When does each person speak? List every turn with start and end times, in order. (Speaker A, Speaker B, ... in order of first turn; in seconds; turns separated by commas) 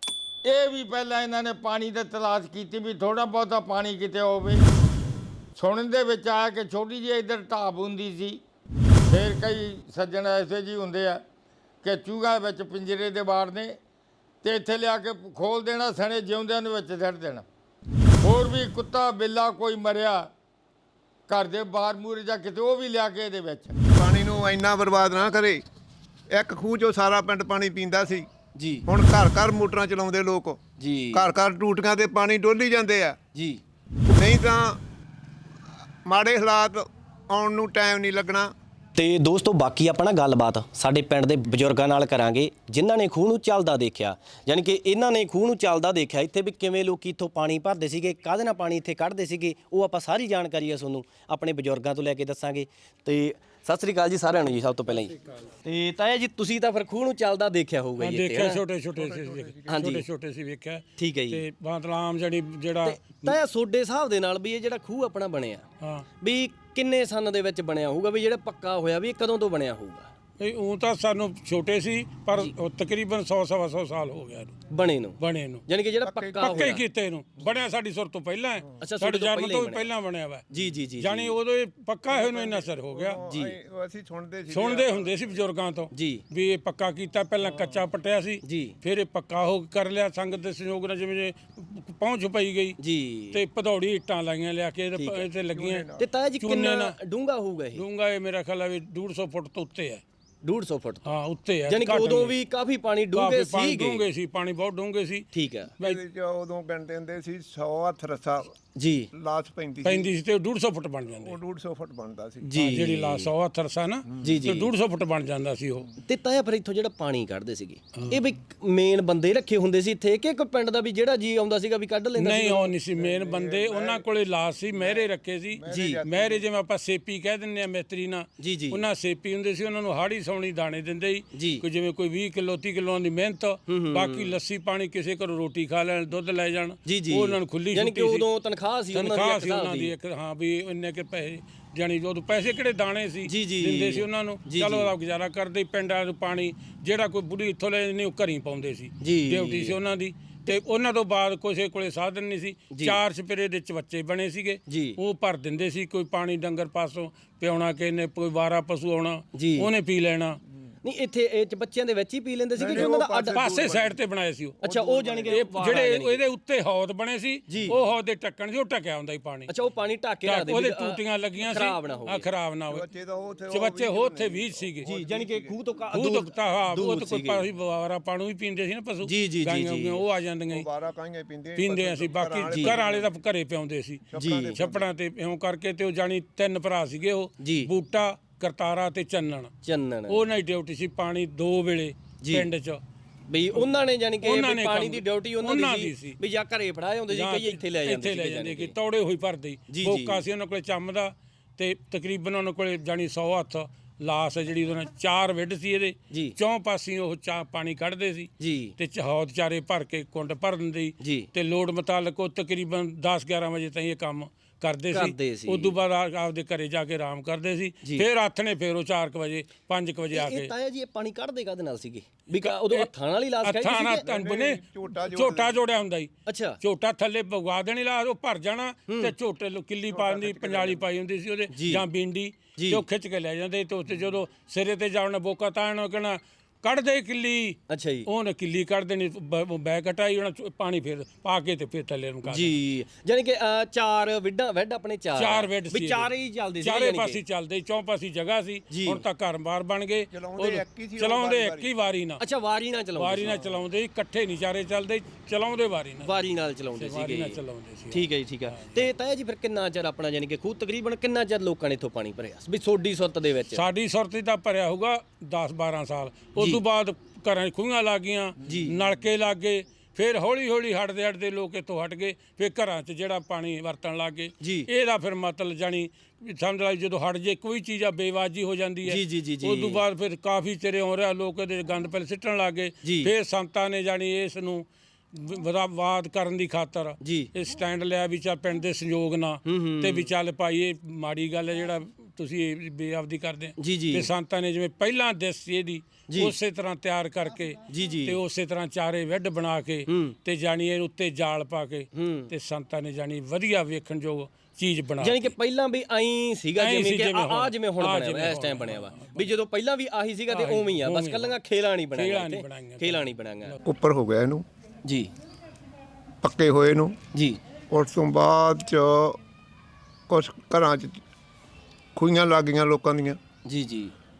Speaker A: 0.4-4.6, Speaker A: 5.5-8.4, Speaker A: 9.1-11.2, Speaker A: 11.8-13.8, Speaker A: 14.4-17.4, Speaker A: 18.2-20.3, Speaker A: 21.3-23.8, Speaker B: 23.9-25.6, Speaker B: 26.3-28.3, Speaker C: 28.5-28.9, Speaker B: 28.9-30.6, Speaker C: 30.8-31.2, Speaker B: 31.1-33.2, Speaker C: 33.3-33.6, Speaker B: 34.1-34.8, Speaker B: 36.0-38.5, Speaker C: 38.9-58.6, Speaker D: 58.0-63.4, Speaker B: 59.0-59.9, Speaker C: 59.7-60.0, Speaker C: 61.0-61.4, Speaker C: 62.8-65.7, Speaker D: 65.8-66.0, Speaker C: 66.2-70.1, Speaker D: 70.4-74.5, Speaker C: 74.7-76.8, Speaker D: 75.2-75.7, Speaker B: 76.0-76.8, Speaker D: 76.4-80.4, Speaker C: 78.8-79.9, Speaker C: 80.5-81.3, Speaker D: 81.0-83.2, Speaker B: 82.1-85.4, Speaker C: 83.3-83.5, Speaker D: 84.5-92.8, Speaker C: 85.9-86.2, Speaker B: 87.5-87.8, Speaker C: 88.4-88.7, Speaker C: 92.8-93.4, Speaker D: 93.3-95.9, Speaker C: 95.0-95.2, Speaker B: 95.5-96.0, Speaker C: 96.0-97.8, Speaker D: 96.4-97.0, Speaker D: 97.7-100.0, Speaker C: 100.4-101.1, Speaker D: 101.0-102.3, Speaker C: 101.7-104.0, Speaker D: 103.1-105.2, Speaker C: 105.3-105.7, Speaker B: 105.8-108.5, Speaker C: 108.8-109.1, Speaker B: 109.1-110.1, Speaker D: 109.8-111.3, Speaker B: 111.2-112.5, Speaker C: 112.5-113.3, Speaker D: 112.5-115.9, Speaker B: 114.2-114.5, Speaker C: 114.2-114.7, Speaker C: 116.0-122.7, Speaker D: 122.2-138.2, Speaker B: 122.9-124.0, Speaker B: 124.7-126.4, Speaker C: 125.7-126.0, Speaker C: 128.4-128.8, Speaker C: 131.3-131.6, Speaker C: 133.7-134.3, Speaker C: 136.9-139.9, Speaker D: 138.9-160.4, Speaker C: 143.3-144.9, Speaker C: 149.0-149.8, Speaker C: 152.7-153.0, Speaker C: 154.7-155.0, Speaker C: 159.3-159.7, Speaker C: 160.8-163.4, Speaker B: 162.6-164.0, Speaker D: 162.7-164.6, Speaker B: 164.6-165.8, Speaker C: 164.6-166.2, Speaker D: 165.3-169.5, Speaker C: 167.5-167.8, Speaker C: 169.5-172.3, Speaker D: 170.2-172.8, Speaker B: 172.7-175.6, Speaker D: 173.5-174.9, Speaker C: 174.8-177.4, Speaker D: 175.9-180.7, Speaker C: 179.0-180.0, Speaker B: 180.5-183.1, Speaker D: 181.6-189.5, Speaker C: 182.5-182.8, Speaker B: 184.1-184.9, Speaker C: 184.2-184.6, Speaker C: 187.4-187.7, Speaker C: 189.6-190.2, Speaker D: 190.1-192.8, Speaker C: 192.2-192.5, Speaker C: 193.3-198.7, Speaker D: 194.2-196.2, Speaker D: 197.1-220.5, Speaker C: 199.7-200.2, Speaker C: 208.4-208.7, Speaker C: 211.0-211.3, Speaker C: 214.9-215.7, Speaker C: 220.1-224.1, Speaker D: 222.3-222.9, Speaker D: 223.4-242.5, Speaker B: 224.0-225.6, Speaker C: 226.2-226.6, Speaker C: 228.9-229.1, Speaker B: 229.9-230.9, Speaker C: 231.5-231.8, Speaker C: 232.6-232.8, Speaker C: 237.7-238.1, Speaker C: 242.3-247.2, Speaker D: 245.2-246.1, Speaker D: 246.6-252.2, Speaker C: 248.7-249.0, Speaker B: 250.1-251.7, Speaker C: 252.2-253.4, Speaker D: 253.0-256.1, Speaker C: 256.0-257.4, Speaker D: 256.7-258.9, Speaker C: 257.9-263.6, Speaker D: 263.5-305.3, Speaker C: 268.4-268.7, Speaker C: 274.4-274.7, Speaker C: 278.9-279.8, Speaker C: 282.8-283.1, Speaker C: 287.0-287.3, Speaker C: 289.4-290.1, Speaker C: 293.6-294.1, Speaker C: 296.1-296.3, Speaker C: 297.7-298.2, Speaker C: 299.9-300.1, Speaker C: 301.9-302.3, Speaker C: 305.0-313.6, Speaker D: 306.6-309.3, Speaker D: 310.3-311.3, Speaker D: 311.9-313.6, Speaker B: 313.6-314.4, Speaker C: 314.8-315.1, Speaker B: 316.2-317.0, Speaker C: 317.1-317.4, Speaker B: 317.7-319.2, Speaker B: 320.1-321.0, Speaker B: 321.9-323.2, Speaker C: 323.4-323.9